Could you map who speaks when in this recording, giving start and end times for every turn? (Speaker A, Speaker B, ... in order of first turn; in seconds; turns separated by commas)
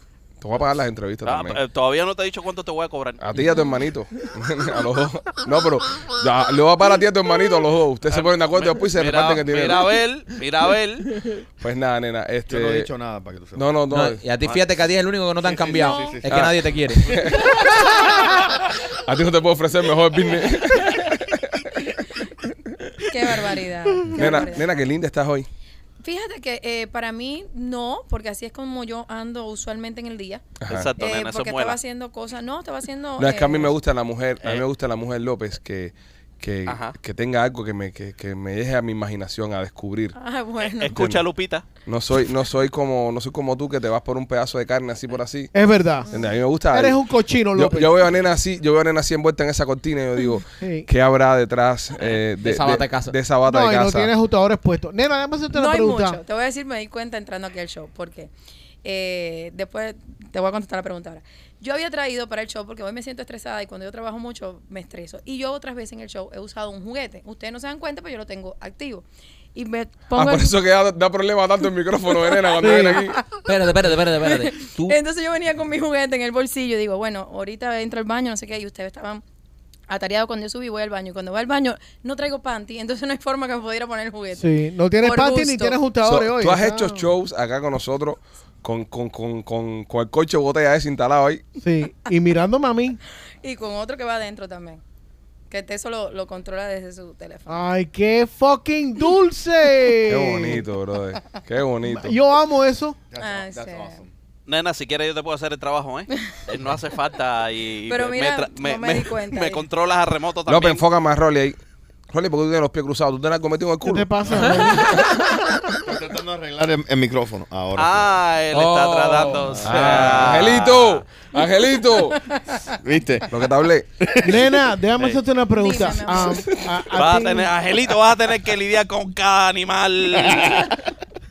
Speaker A: 0.4-1.6, Speaker B: 1.2-3.5, Speaker A: 3.2-9.9, Speaker C: 3.5-3.9, Speaker B: 8.1-11.2, Speaker A: 11.6-12.9, Speaker D: 12.5-13.7, Speaker A: 13.5-14.2, Speaker E: 13.9-17.1, Speaker D: 15.4-16.5, Speaker C: 15.7-16.2, Speaker A: 16.3-21.9, Speaker C: 23.1-24.8, Speaker A: 24.0-25.5, Speaker C: 26.0-33.7, Speaker A: 30.6-30.9, Speaker B: 30.7-31.8, Speaker A: 33.2-40.1, Speaker B: 36.7-36.9, Speaker C: 40.1-41.0, Speaker B: 40.8-41.7, Speaker A: 40.9-41.2, Speaker A: 41.8-45.5, Speaker F: 45.5-46.1, Speaker C: 46.1-46.4, Speaker A: 46.1-47.0, Speaker F: 46.7-48.0, Speaker A: 47.5-54.1, Speaker F: 50.6-50.9, Speaker E: 52.0-53.1, Speaker F: 53.5-56.2, Speaker C: 55.5-58.3, Speaker C: 58.8-70.6, Speaker A: 70.1-73.2, Speaker C: 72.2-73.3, Speaker F: 72.6-73.0, Speaker E: 73.4-75.0, Speaker C: 74.2-79.2, Speaker C: 79.9-85.8, Speaker F: 84.3-87.1, Speaker A: 86.0-91.4, Speaker F: 91.6-93.0, Speaker C: 93.4-94.8, Speaker C: 95.5-97.6, Speaker F: 97.5-100.7, Speaker A: 100.1-102.2, Speaker F: 101.8-103.0, Speaker D: 103.1-104.1, Speaker C: 103.2-104.0, Speaker B: 104.5-110.8, Speaker C: 107.9-109.7, Speaker A: 110.5-111.6, Speaker A: 112.1-115.2, Speaker F: 113.8-115.0, Speaker D: 115.8-118.2, Speaker B: 117.8-120.7, Speaker E: 118.5-120.2, Speaker D: 119.5-120.7, Speaker A: 119.6-122.2, Speaker C: 121.9-122.6, Speaker D: 122.8-123.4, Speaker A: 123.3-123.9, Speaker D: 124.0-124.6, Speaker F: 124.2-127.5, Speaker C: 125.5-126.6, Speaker B: 126.9-130.7, Speaker D: 130.1-130.7